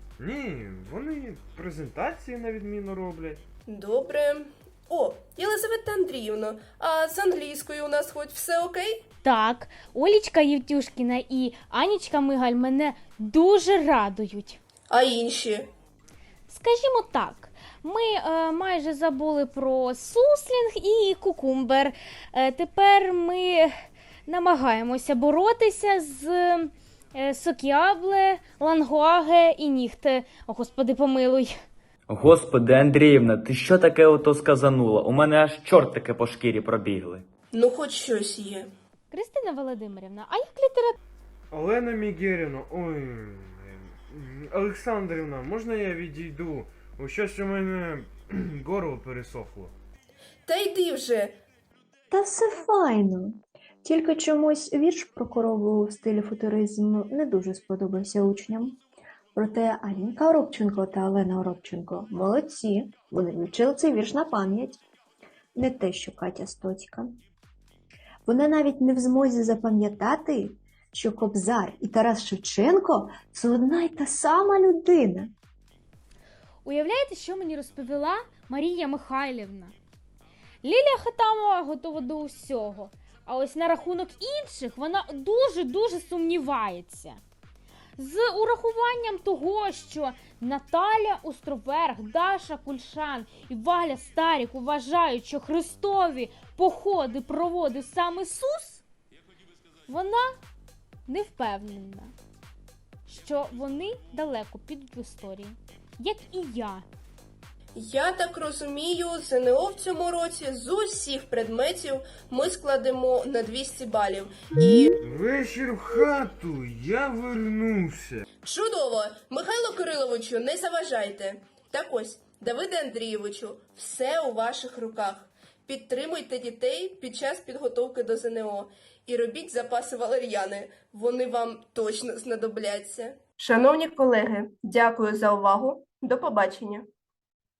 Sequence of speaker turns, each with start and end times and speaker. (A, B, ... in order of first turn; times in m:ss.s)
0:00.2-0:03.4 A
0:03.7-0:09.0 B
0:09.2-0:14.6 C
0:14.9-0:15.7 B
0:16.5-0:23.7 C
0:24.3-0:31.5 C
0:32.1-0:37.2 D
0:37.5-0:38.7 B
0:39.1-0:41.0 C
0:41.5-0:49.7 A
0:50.4-0:51.4 B
0:52.1-0:58.8 E
0:59.4-1:04.8 E
1:05.5-1:07.2 E
1:08.2-1:15.3 E
1:16.6-1:19.7 C
1:20.6-1:27.2 C
1:28.0-1:38.8 C
1:39.9-1:40.3 C
1:41.1-1:42.1 C
1:43.1-1:46.8 C
1:47.8-1:54.9 B
1:55.0-1:58.2 A
1:58.4-2:16.8 B